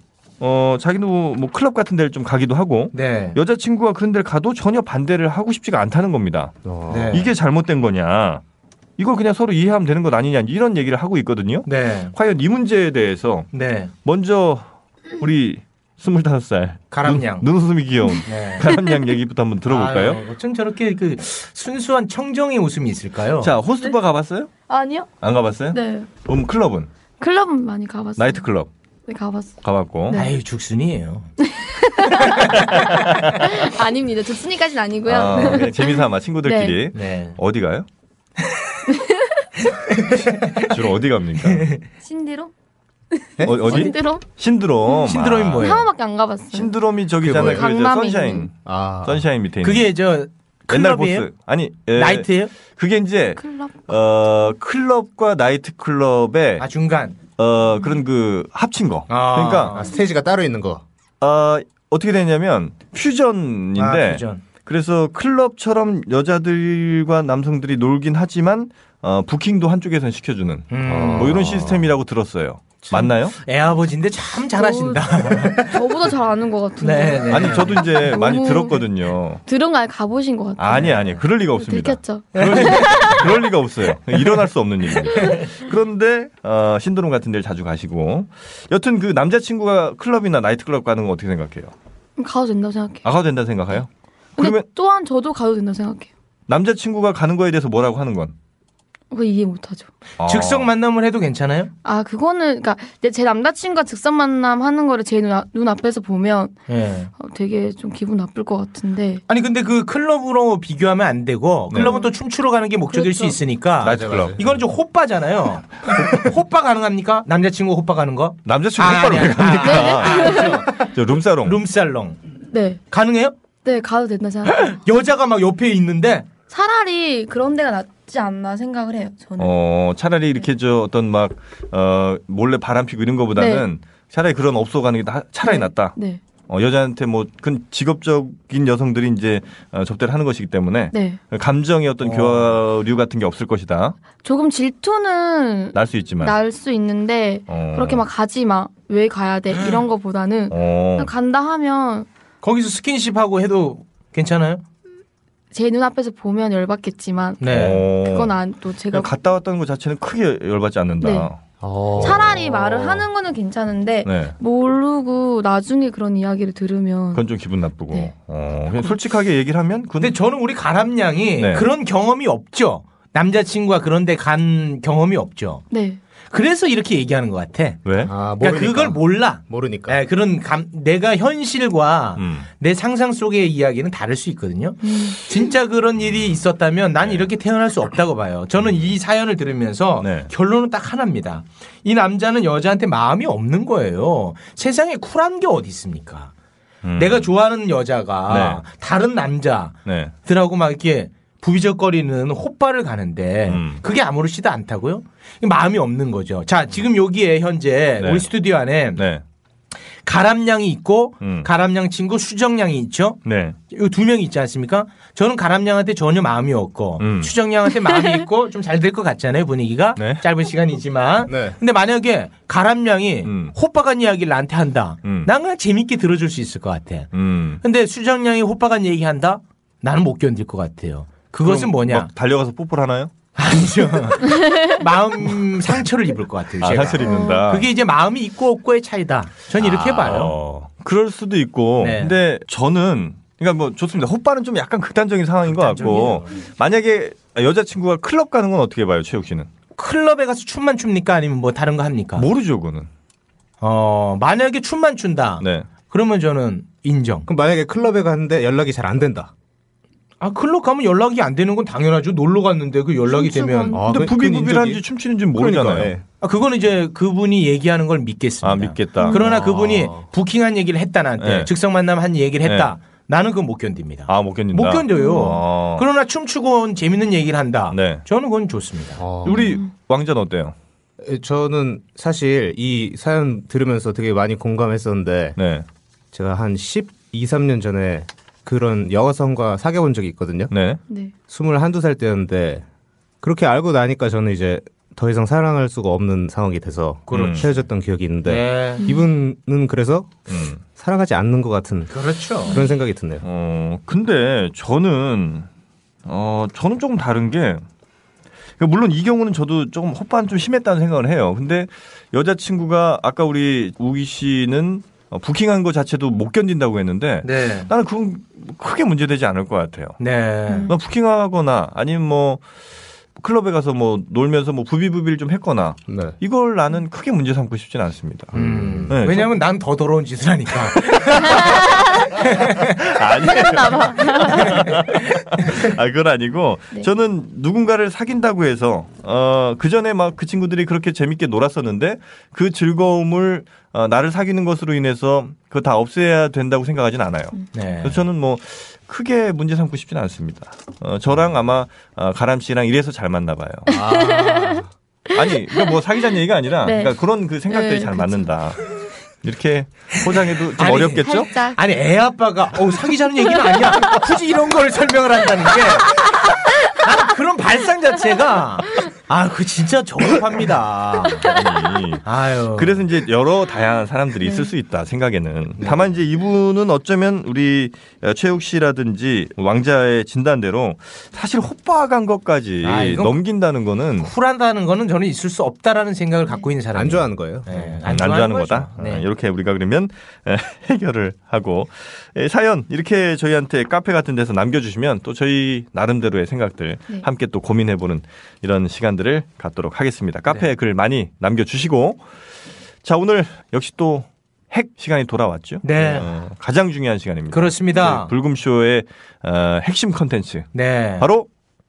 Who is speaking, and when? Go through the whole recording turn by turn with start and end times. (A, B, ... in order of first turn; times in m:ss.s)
0:00.4-0:06.6 A
0:02.9-0:03.4 B
0:06.6-0:07.2 C
0:06.9-0:07.3 B
0:07.1-0:08.4 A
0:09.0-0:13.5 A
0:11.6-0:12.1 B
0:13.5-0:13.9 B
0:14.0-0:14.7 A
0:15.2-0:20.2 A
0:16.9-0:17.5 B
0:18.2-0:18.6 B
0:19.7-0:23.5 B
0:23.4-0:24.5 A
0:24.7-0:25.1 D
0:25.2-0:26.9 A
0:25.7-0:26.1 D
0:27.2-0:28.4 D
0:28.2-0:28.7 A
0:29.1-0:29.6 D
0:29.6-0:30.2 A
0:30.1-0:31.3 B
0:31.4-0:32.6 D
0:32.2-0:32.8 B
0:33.4-0:36.8 D
0:35.1-0:37.8 A
0:36.9-0:37.4 B
0:38.9-0:39.4 D
0:40.4-0:40.7 B
0:40.6-0:41.7 A
0:41.4-0:41.8 B
0:42.0-0:42.5 D
0:43.2-0:44.2 D
0:43.4-0:43.8 C
0:43.4-0:45.8 A
0:44.9-0:46.7 D
0:45.0-0:45.8 B
0:46.5-0:48.5 A
0:47.2-0:47.7 C
0:47.4-0:48.5 D
0:48.6-0:49.2 C
0:49.0-0:49.9 A
0:49.6-0:51.3 B
0:50.7-0:56.6 A
0:51.9-0:52.5 B
0:53.4-0:53.8 D
0:56.6-0:57.2 B
0:57.4-0:59.7 A
0:59.1-0:59.9 B
0:59.7-1:00.8 C
1:01.2-1:13.4 A
1:03.8-1:04.4 B
1:10.7-1:11.4 B
1:10.8-1:11.8 C
1:12.8-1:15.8 B
1:14.6-1:18.9 D
1:16.8-1:17.8 B
1:17.3-1:19.4 A
1:19.4-1:23.2 D
1:20.6-1:31.7 A
1:22.3-1:23.2 B
1:25.2-1:25.4 B
1:32.2-1:33.0 D
1:33.0-1:34.6 A
1:34.4-1:36.1 D
1:36.5-1:38.3 A
1:39.1-1:39.9 D
1:40.2-1:40.7 A
1:40.2-1:41.7 B
1:41.8-1:46.6 D
1:46.7-1:47.1 B
1:47.2-1:49.2 D
1:49.3-2:00.8 B
1:51.7-1:52.1 D
1:52.9-1:53.4 D
1:53.8-1:54.4 A
1:53.8-1:54.6 C
1:58.4-2:01.6 A
1:59.6-2:00.6 D
2:01.4-2:02.2 B
2:02.5-2:02.8 D
2:02.9-2:03.4 B
2:03.6-2:04.8 D
2:04.4-2:06.3 B
2:06.5-2:09.5 D
2:09.4-2:16.0 A
2:13.4-2:13.6 D
2:15.4-2:16.2 D
2:16.5-2:24.0 A
2:20.9-2:21.2 D
2:22.0-2:22.5 B
2:24.2-2:32.1 D
2:25.7-2:26.4 A
2:27.5-2:28.0 A
2:29.6-2:29.8 B
2:30.5-2:31.1 A
2:32.4-2:34.6 B
2:35.5-2:39.1 D
2:37.4-2:37.8 B
2:37.5-2:38.3 A
2:38.9-2:41.4 A
2:41.0-2:41.3 D
2:41.6-2:42.7 C
2:42.0-2:47.2 D
2:42.0-2:43.0 A
2:44.0-2:44.3 A
2:47.1-2:50.2 A
2:50.0-2:55.6 B
2:51.4-2:51.7 A
2:55.7-2:56.0 D
2:56.3-3:16.3 B
2:57.8-2:58.1 A
2:58.0-3:00.0 C
3:02.2-3:02.5 A
3:04.8-3:05.2 D
3:10.0-3:10.3 A
3:16.8-3:17.3 A
3:17.0-3:19.7 B
3:18.3-3:18.6 A
3:19.8-3:20.1 A
3:20.2-3:29.0 B
3:23.5-3:23.8 A
3:28.0-3:28.3 A
3:29.0-3:29.2 A
3:30.0-3:47.1 B
3:31.2-3:31.5 A
3:33.2-3:33.6 A
3:37.0-3:37.3 A
3:40.0-3:40.2 A
3:41.3-3:41.6 C
3:43.2-3:43.5 A
3:45.0-3:45.3 A
3:47.1-3:47.6 A
3:47.6-3:52.1 B
3:51.4-3:53.1 A
3:53.4-4:00.3 B
3:54.4-3:54.7 D
3:56.6-3:57.7 A
3:57.0-3:57.4 D
3:59.6-4:09.5 A
4:01.8-4:02.1 B
4:05.4-4:06.3 B
4:09.8-4:12.2 B
4:12.2-4:12.9 A
4:13.6-4:17.3 B
4:15.4-4:15.7 A
4:17.3-4:19.3 C
4:20.2-4:23.8 B
4:23.1-4:24.0 D
4:23.7-4:26.0 C
4:23.9-4:25.9 A
4:26.2-4:39.0 B
4:28.4-4:29.3 A
4:29.0-4:29.3 D
4:29.3-4:30.0 C
4:31.2-4:31.5 A
4:32.4-4:32.7 A
4:34.1-4:35.8 A
4:34.9-4:35.4 D
4:37.7-4:38.0 A
4:39.0-4:39.5 C
4:39.2-4:39.7 D
4:39.2-4:40.5 A
4:41.0-4:45.4 C
4:45.4-4:45.6 A
4:46.1-4:50.5 C
4:50.5-4:50.8 A
4:51.3-4:52.6 C
4:53.2-5:00.2 C
4:57.1-4:57.5 B
4:57.1-4:57.5 A
4:58.2-4:58.8 B
5:00.3-5:00.6 A
5:00.8-5:03.2 C
5:01.9-5:02.6 B
5:03.2-5:05.5 A
5:06.0-5:07.6 A
5:08.6-5:20.0 A
5:17.2-5:17.7 B
5:20.0-5:20.7 B
5:20.7-5:22.4 A
5:23.2-5:28.3 A
5:25.9-5:26.1 C
5:28.3-5:28.9 C
5:28.3-5:31.5 B
5:28.9-5:29.3 A
5:31.4-5:32.1 D
5:32.1-5:32.8 B
5:32.7-5:53.7 A
5:33.2-5:34.8 D
5:34.3-5:35.5 B
5:47.5-5:48.0 B
5:53.7-5:55.8 D
5:53.7-5:54.6 C
5:55.1-6:01.3 A
5:56.6-5:57.0 D
5:57.5-5:58.3 D
6:00.6-6:06.2 B
6:01.0-6:01.6 D
6:06.7-6:11.3 B
6:11.2-6:24.1 A
6:12.0-6:12.8 B
6:22.6-6:23.1 B
6:24.0-6:29.0 B
6:26.7-6:27.8 C
6:27.9-6:42.0 A
6:42.8-6:51.3 A
6:45.6-6:46.1 B
6:47.3-6:48.1 B
6:50.5-6:51.1 B